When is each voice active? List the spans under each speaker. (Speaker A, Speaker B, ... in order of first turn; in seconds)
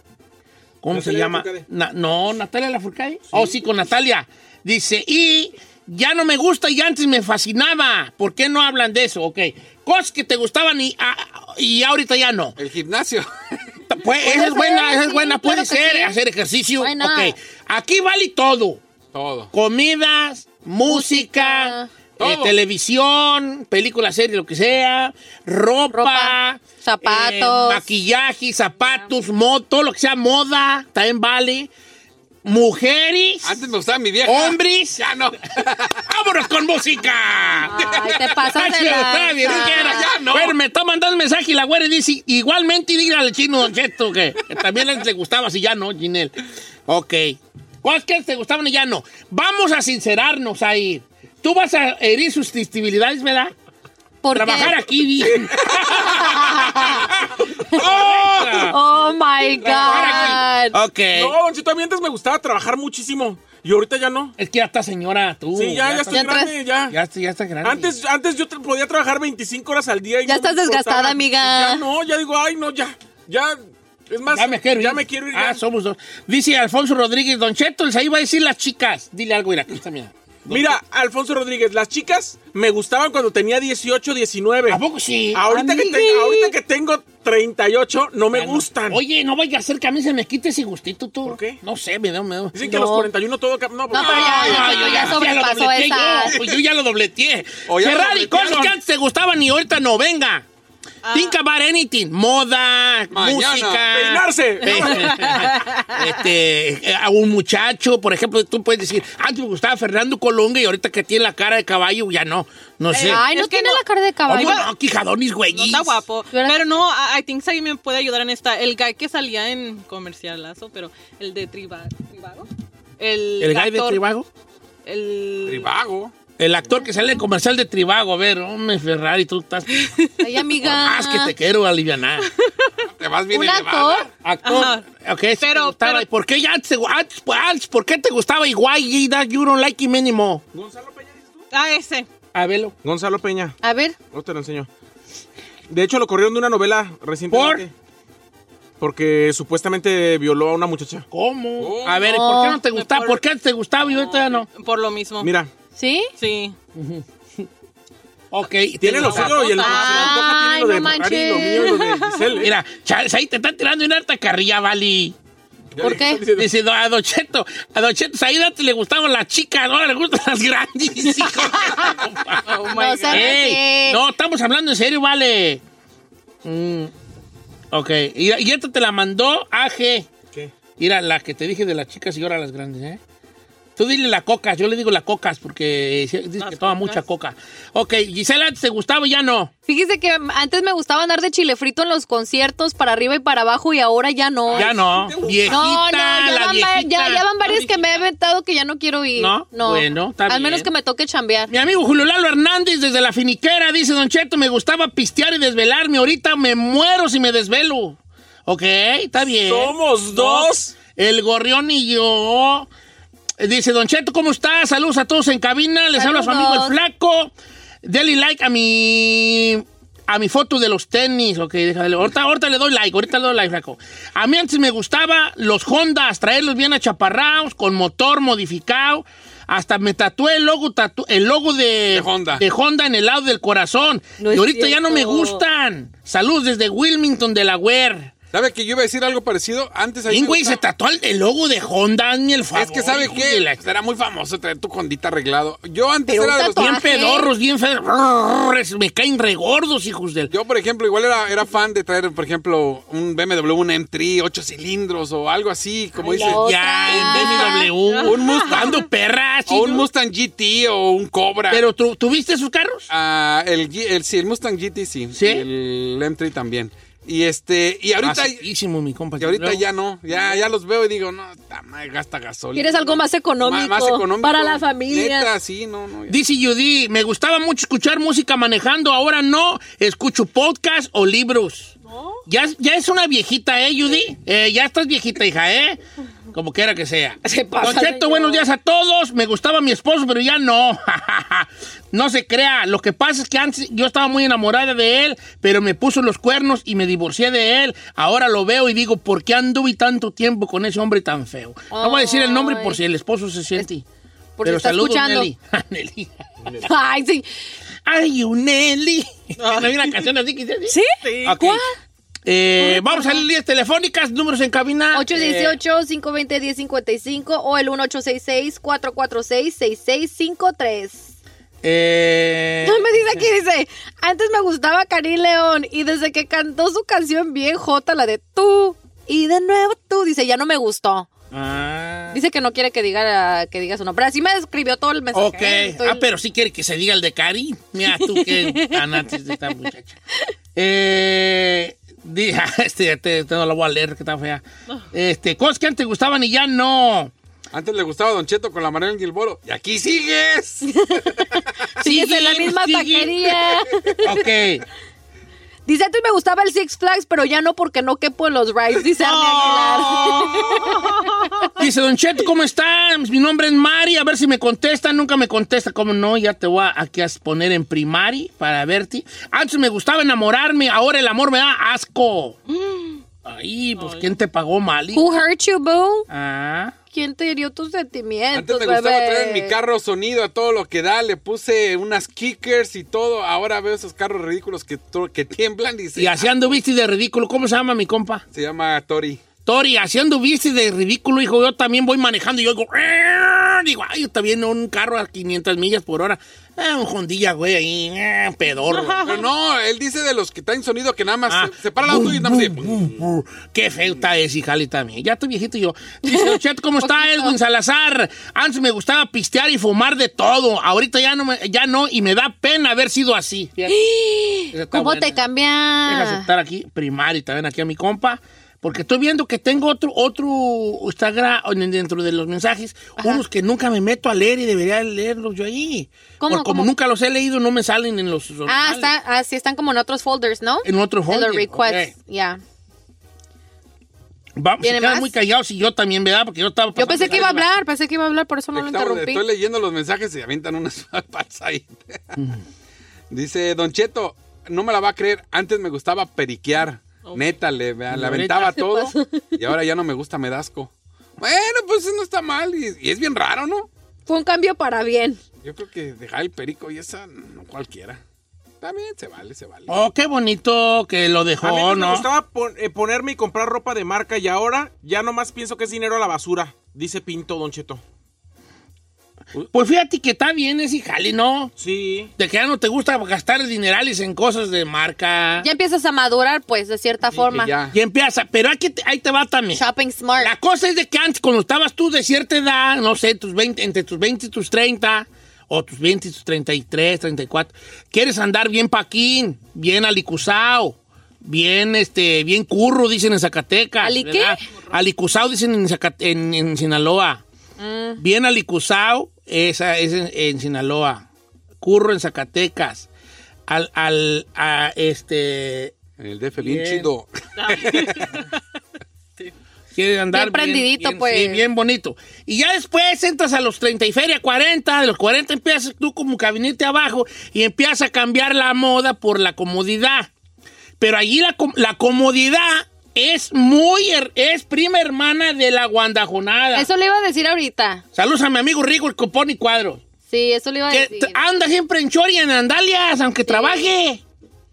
Speaker A: 0.8-12.6, 13.9-18.8, 19.5-31.7, 32.4-33.6, 34.2-35.0, 36.0-37.7, 38.4-46.3, 46.9-53.5, 54.3-57.2, 57.7-58.8, 59.6-61.3, 64.4-67.9, 74.3-80.8, 84.7-86.5, 88.3-92.8, 94.1-100.5, 101.1-113.3, 114.3-116.0, 123.4-124.3, 126.4-129.9, 130.6-132.3, 134.2-140.4, 142.3-142.7, 147.3-147.7, 151.1-154.5, 156.8-157.4, 158.3-159.7, 162.4-165.2, 166.3-172.4, 173.1-175.6, 176.4-176.9, 177.7-180.1, 180.8-183.0, 183.8-189.5, 194.6-197.2, 199.2-200.7, 201.5-212.7, 213.4-238.1, 240.1-243.6, 246.6-250.3, 256.1-259.9, 261.5-262.9, 265.1-265.4, 268.0-269.6, 276.1-281.7, 282.3-285.8, 286.3-303.8, 304.4-306.1, 307.9-311.6, 312.2-315.6, 321.6-322.9, 331.3-332.2, 335.1-340.0, 340.5-347.1, 351.8-353.4, 354.0-354.6, 361.6-372.4, 373.2-375.1, 376.1-376.7, 385.9-388.2, 389.4-399.0, 401.3-413.8, 414.5-415.2, 415.8-428.9, 430.6-431.9, 434.4-437.5, 447.9-448.9, 459.7-462.1, 469.5-471.5, 472.2-475.4, 477.7-479.6, 480.2-497.2, 498.0-501.0, 501.6-502.9, 503.5-505.7, 506.4-506.9, 509.7-520.1, 520.8-526.7, 527.9-529.8, 530.7-534.0
Speaker B: 0.9-1.6, 61.1-64.3, 65.5-67.0, 67.6-75.6, 80.5-84.8, 85.3-89.0, 91.2-91.6, 92.5-94.8, 103.9-105.5, 140.5-141.5, 142.8-143.6, 144.1-144.7, 145.7-147.7, 148.8-151.1, 155.2-155.5, 158.8-162.5, 165.8-166.5, 194.5-195.6, 209.4-210.7, 461.4-467.8, 471.6-472.1
Speaker C: 12.6-13.3, 19.1-19.5, 22.2-22.5, 33.4-36.0, 37.8-38.3, 39.4-40.5, 55.9-56.3, 57.8-58.6, 93.9-95.2, 97.7-98.7, 103.1-103.9, 125.4-126.1, 132.9-134.1, 151.6-152.0, 231.9-232.4, 238.3-240.6, 242.5-246.8, 250.3-257.2, 258.0-258.7, 259.5-261.6, 262.9-268.4, 269.2-276.2, 347.5-350.7, 351.3-351.7, 378.3-386.4, 388.3-389.2, 399.0-403.0, 438.5-441.7, 443.1-453.7, 455.4-458.0, 458.6-459.8, 477.1-477.7, 506.0-508.1
Speaker D: 14.2-16.2, 16.8-17.3, 20.9-21.9, 25.9-27.8, 37.6-40.1, 54.2-54.8, 56.1-56.9, 58.6-60.8, 66.1-66.5, 70.2-71.8, 92.6-93.0, 93.9-96.3, 113.0-114.6, 116.3-116.7, 130.2-131.3, 133.3-134.1, 143.6-143.9, 152.0-152.6, 155.8-156.1, 159.6-161.7, 165.8-166.2, 172.7-174.0, 189.7-194.7, 195.5-201.5, 216.0-216.7, 234.2-235.4, 246.1-247.3, 256.0-257.7, 272.5-275.3, 287.2-288.5, 301.7-302.8, 304.4-305.3, 306.6-307.3, 314.9-321.1, 322.6-331.1, 332.1-336.0, 351.8-354.0, 355.6-360.9, 374.9-376.1, 376.9-379.5, 406.1-407.3, 413.7-416.3, 426.2-426.7, 428.4-432.4, 434.6-435.1, 436.8-439.2, 454.1-455.2, 475.4-477.5, 479.5-480.3, 493.8-494.4, 497.6-498.0, 510.1-511.4, 526.5-527.8, 530.1-531.1, 533.3-533.7
Speaker E: 101.0-101.4, 105.3-106.2, 112.9-113.8, 114.4-114.6, 115.5-122.5, 123.0-124.0, 124.8-125.7, 129.8-130.1, 134.4-134.8, 135.4-136.1, 141.5-142.1, 152.7-153.2, 154.5-155.3, 156.2-156.5, 159.2-160.2, 161.6-162.4, 172.5-173.4, 186.4-187.0, 197.4-198.1, 257.8-258.8, 309.4-309.9, 310.7-311.6, 359.3-359.9, 372.6-372.8, 373.8-374.1, 398.7-399.2, 447.0-447.4, 507.4-508.2